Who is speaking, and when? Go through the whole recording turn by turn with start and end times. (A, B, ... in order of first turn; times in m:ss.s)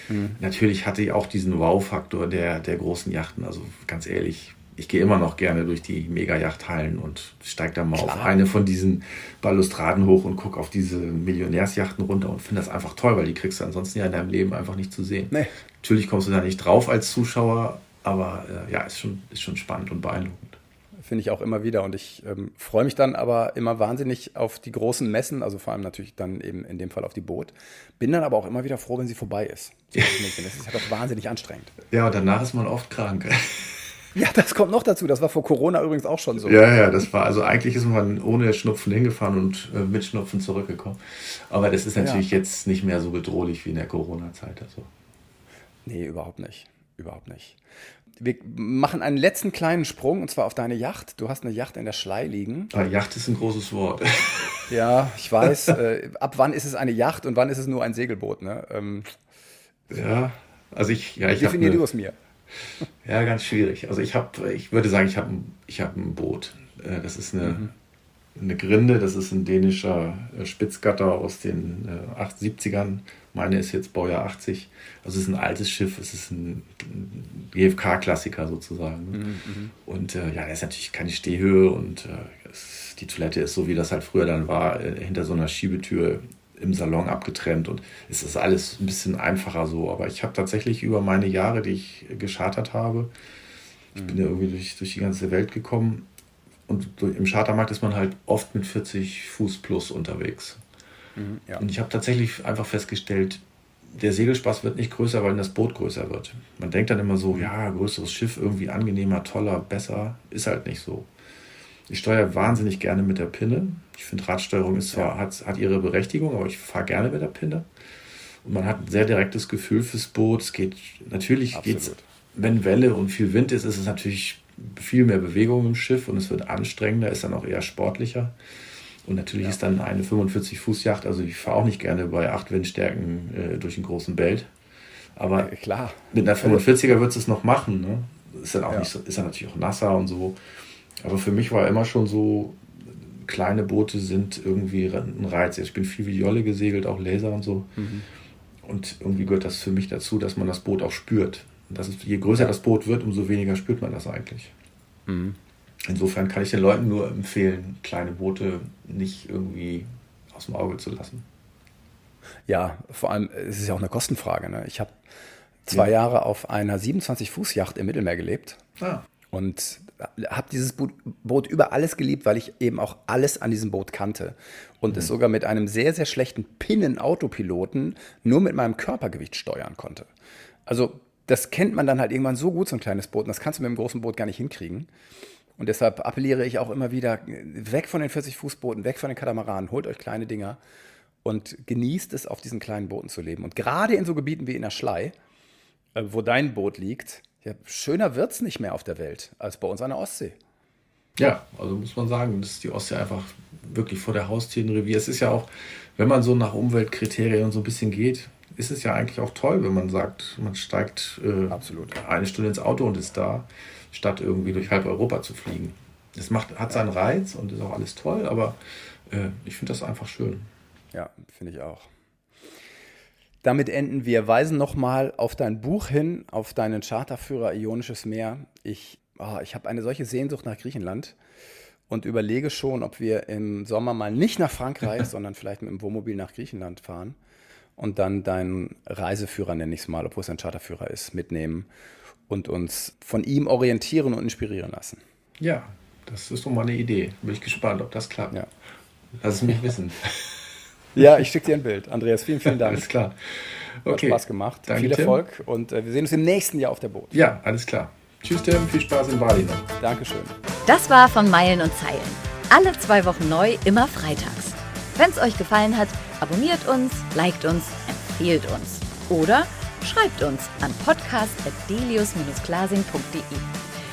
0:00.1-0:00.4 A
0:00.4-0:20.6 B
0:07.9-0:08.3 A
0:21.0-0:31.8 A
0:31.9-0:33.9 B
0:34.1-0:36.6 A
0:36.4-0:44.9 B
0:42.0-0:42.3 A
0:45.8-0:47.6 A
0:48.2-0:52.7 A
0:52.7-0:54.6 B
0:54.7-0:59.1 A
0:59.9-1:01.8 B
1:01.4-1:02.2 A
1:03.0-1:07.7 B
1:07.4-1:07.7 A
1:08.3-1:19.2 B
1:19.1-1:19.7 A
1:19.8-1:33.1 B
1:33.9-1:34.2 A
1:34.0-1:36.1 B
1:36.7-1:40.6 B
1:41.2-1:41.6 A
1:41.6-1:51.1 B
1:51.9-1:57.7 B
1:58.4-2:08.3 B
2:01.5-2:02.0 A
2:09.0-2:14.5 B
2:15.2-2:15.5 B
2:15.4-2:16.7 A
2:16.1-2:20.4 B
2:21.0-2:27.7 B
2:27.8-2:28.1 A
2:28.6-2:34.5 B
2:35.1-2:35.4 A
2:35.8-2:41.2 B
2:42.5-2:45.0 A
2:45.6-2:48.6 A
2:48.8-2:49.0 B
2:49.3-3:00.1 A
3:00.7-3:04.9 A
3:05.6-3:10.6 A
3:11.2-3:15.1 A
3:15.9-3:20.4 A
3:21.2-3:40.5 B
3:31.5-3:32.0 A
3:40.9-3:41.9 A
3:43.4-3:51.2 A
3:51.9-3:57.2 A
3:57.8-4:01.7 A
4:02.3-4:05.0 A
4:05.4-4:08.3 B
4:09.2-4:10.4 B
4:10.9-4:12.9 A
4:12.4-4:15.2 B
4:13.9-4:17.2 A
4:17.1-4:19.7 B
4:19.8-4:20.4 A
4:20.6-4:33.5 C